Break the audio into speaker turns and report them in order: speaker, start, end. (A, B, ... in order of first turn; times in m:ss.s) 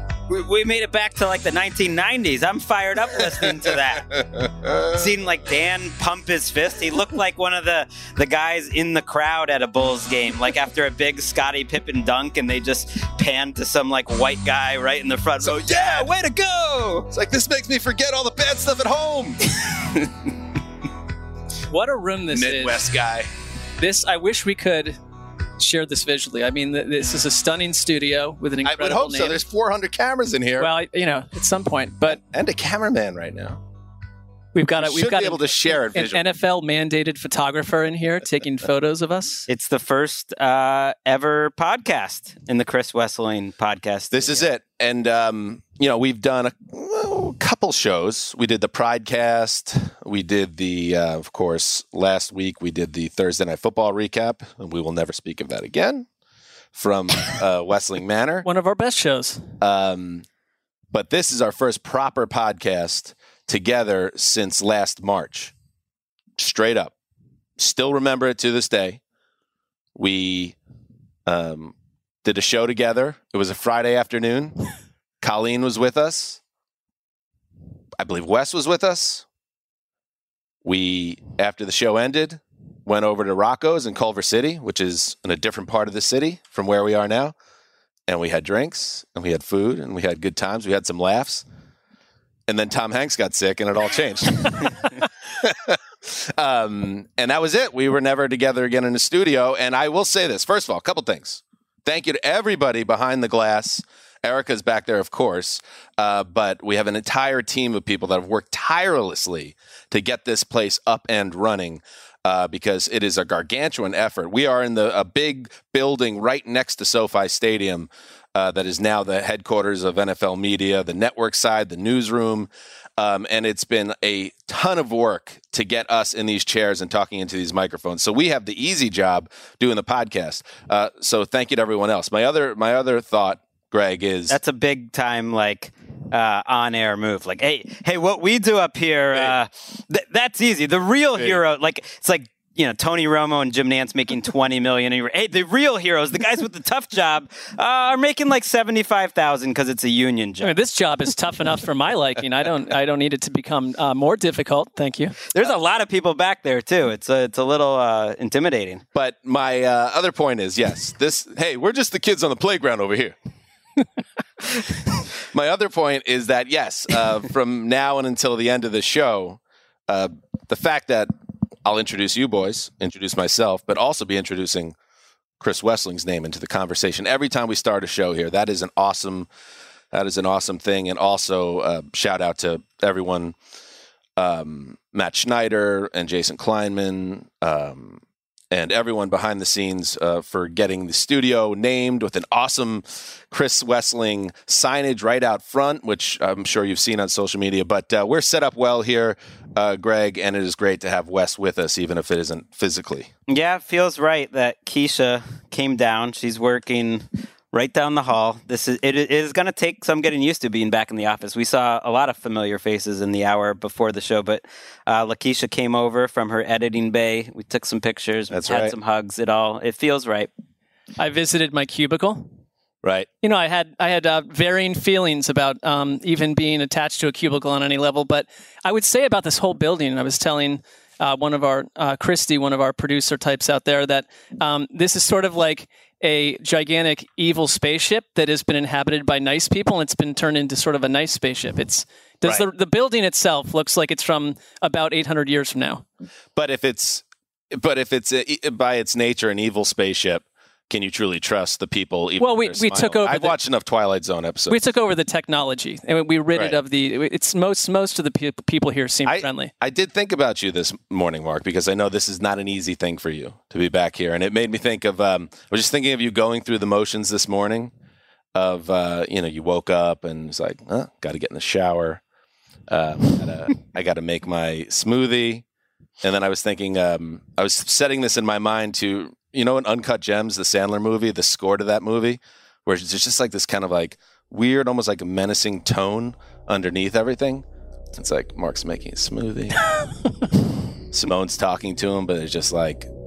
0:00.3-0:04.1 A
0:03.4-0:05.1 B
0:04.9-0:17.1 A
0:15.4-0:16.1 B
0:17.1-0:19.4 B
0:21.7-0:22.8 C
0:22.3-0:23.3 B
0:23.8-0:25.0 C
0:25.6-0:29.4 C
0:28.6-0:30.7 B
0:30.6-0:32.2 C
0:32.0-0:33.6 B
0:34.5-0:39.4 C
0:34.8-0:36.2 B
0:39.5-0:44.5 A
0:44.1-0:56.1 B
0:56.7-0:58.5 B
0:58.4-0:59.5 C
0:59.6-1:00.2 B
1:00.9-1:05.5 B
1:06.4-1:06.9 B
1:07.6-1:09.0 B
1:09.9-1:10.6 B
1:11.2-1:14.6 B
1:15.2-1:16.4 B
1:18.0-1:19.2 B
1:20.6-1:27.3 B
1:28.1-1:31.4 B
1:32.5-2:14.4 B
2:14.3-2:30.5 A
2:30.4-2:35.2 C
2:35.3-2:38.8 A
2:38.9-2:43.2 B
2:45.2-2:51.1 B
2:51.6-2:54.8 B
2:55.4-2:59.3 B
2:59.9-3:03.3 B
3:04.2-3:23.1 B
3:23.3-3:40.3 A
3:38.3-3:38.7 B
3:41.0-3:42.3 C
3:42.8-3:43.1 B
3:43.2-4:05.8 C
4:06.3-4:14.6 B
4:12.2-4:13.4 C
4:14.5-4:19.5 C
4:19.0-4:27.7 B
4:28.3-4:32.0 B
4:32.7-4:35.4 B
4:36.0-4:49.6 B
4:50.9-4:52.9 B